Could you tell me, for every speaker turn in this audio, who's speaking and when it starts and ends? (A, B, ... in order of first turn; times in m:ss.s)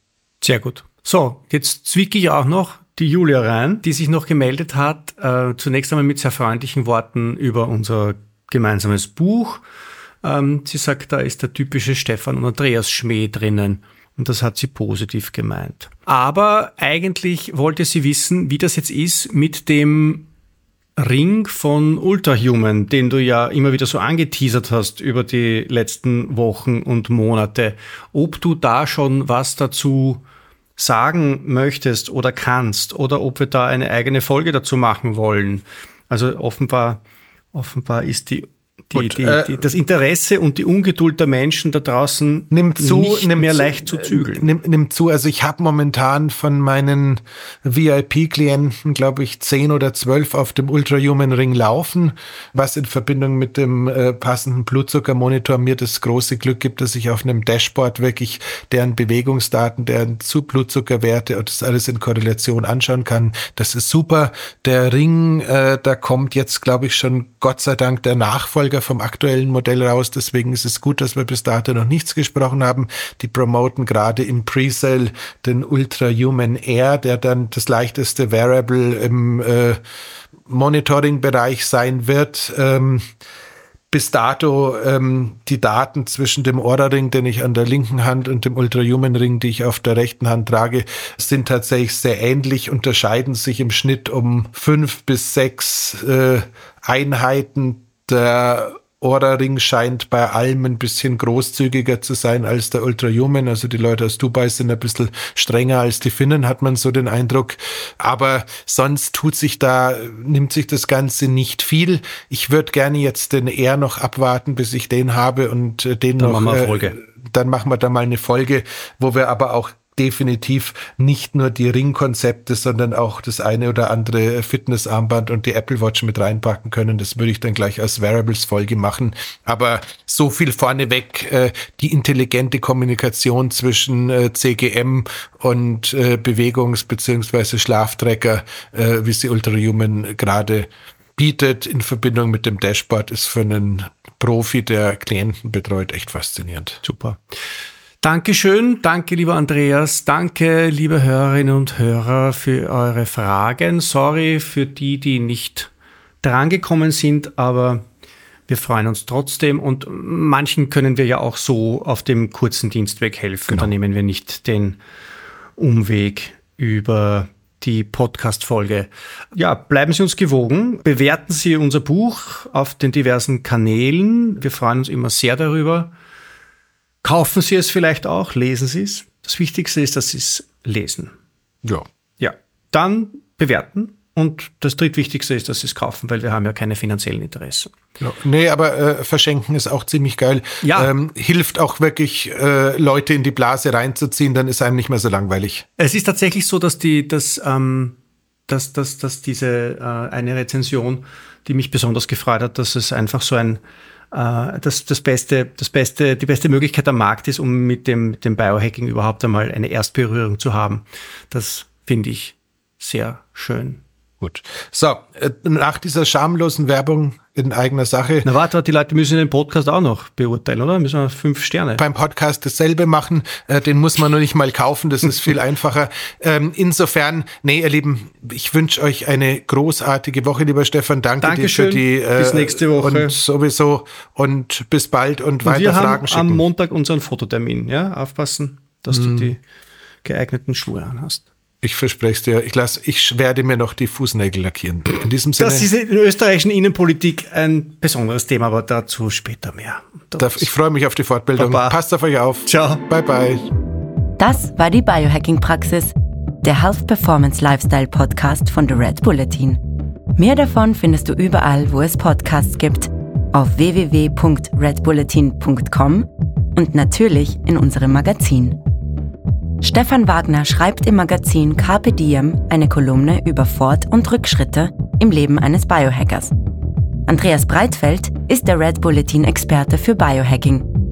0:00.4-0:09.6 A
0:10.2-0:20.3 A
0:21.0-0:30.2 A
0:30.8-0:37.0 A
0:37.5-0:44.5 A
0:39.0-0:39.6 B
0:42.5-1:19.8 B
1:20.5-1:23.0 B
1:23.9-2:26.8 B
1:56.2-1:57.0 A
2:26.8-2:27.2 A
2:28.0-2:35.7 A
2:36.2-2:37.8 A
2:38.5-2:44.8 A
2:45.6-2:55.9 A
2:57.0-3:01.1 A
3:02.2-3:07.7 A
3:08.0-3:15.7 B
3:10.6-3:10.9 A
3:15.8-3:18.0 A
3:18.5-3:23.6 A
3:24.1-3:33.8 A
3:34.2-3:38.3 B
3:38.2-3:41.8 A
3:41.8-3:56.4 B
3:51.2-3:53.2 A
3:55.4-3:59.4 A
3:58.9-3:59.3 B
4:00.0-4:01.3 A
4:01.6-4:05.7 B
4:05.4-4:10.5 A
4:10.2-4:13.5 B
4:11.4-4:11.8 A
4:12.4-4:12.8 A
4:14.2-4:19.6 C
4:20.2-4:28.6 C
4:29.6-4:36.3 C
4:37.1-4:40.7 C